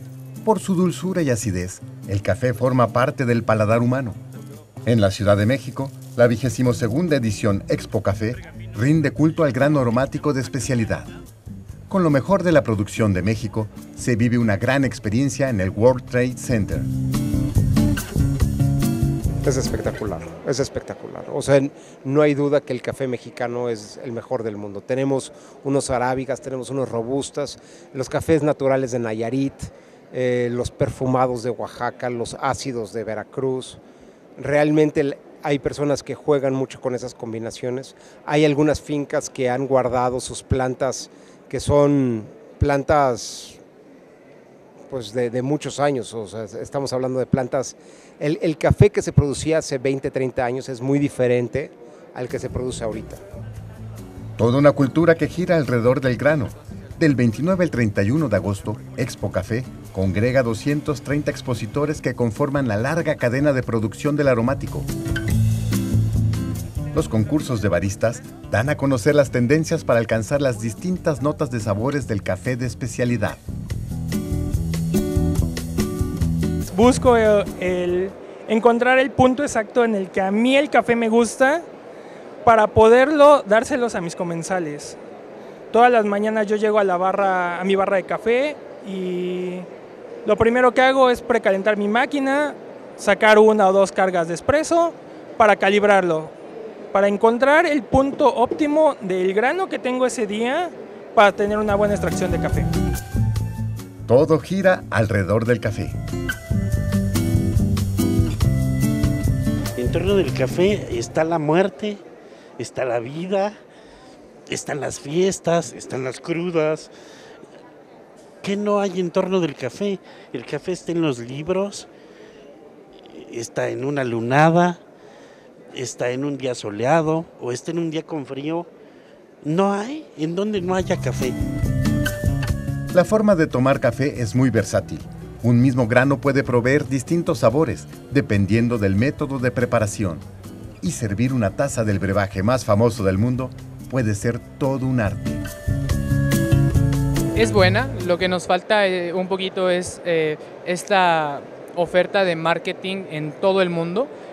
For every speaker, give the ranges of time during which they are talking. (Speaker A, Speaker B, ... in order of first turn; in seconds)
Speaker A: 0.4-4.2, 4.8-11.1, 11.9-16.9, 54.4-64.9, 66.9-73.4, 104.1-106.0, 132.9-140.2, 140.8-145.4
Speaker B: 19.4-33.8, 34.4-43.6, 44.9-53.2
Speaker C: 76.7-81.6, 82.4-85.0, 85.7-89.7, 90.2-96.3, 96.9-102.7
Speaker D: 109.8-112.0, 112.6-113.6, 114.5-116.9, 118.4-121.9, 123.0-124.8, 125.7-128.7, 129.4-131.3
Speaker E: 147.3-154.1